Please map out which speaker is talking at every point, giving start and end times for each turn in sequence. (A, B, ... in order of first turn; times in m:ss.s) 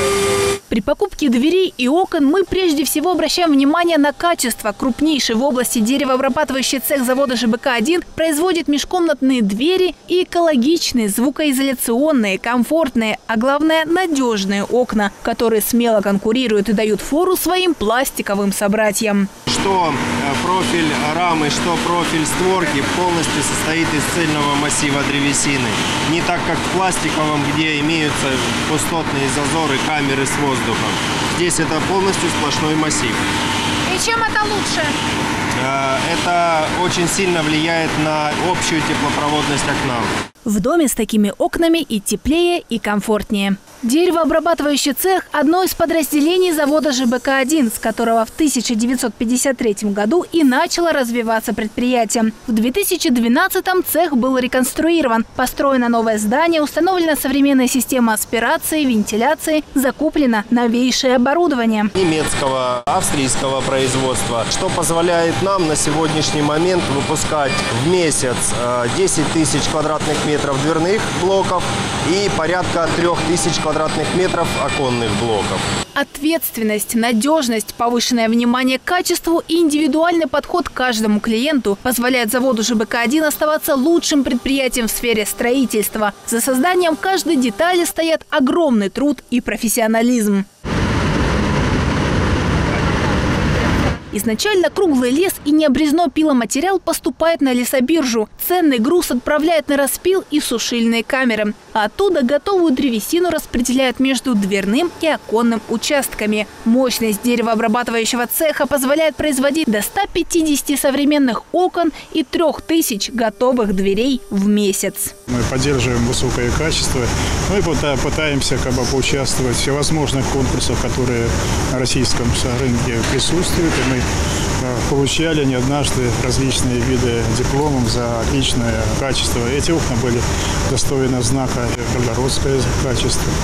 0:00.7-0:19.3 A
0:19.5-0:33.2 B
0:33.8-0:35.0 A
0:35.6-0:40.1 B
0:40.4-1:01.9 A
1:02.0-1:15.6 B
1:15.9-1:30.4 A
1:34.1-1:55.1 A
1:55.3-2:04.0 C
2:04.6-2:13.3 C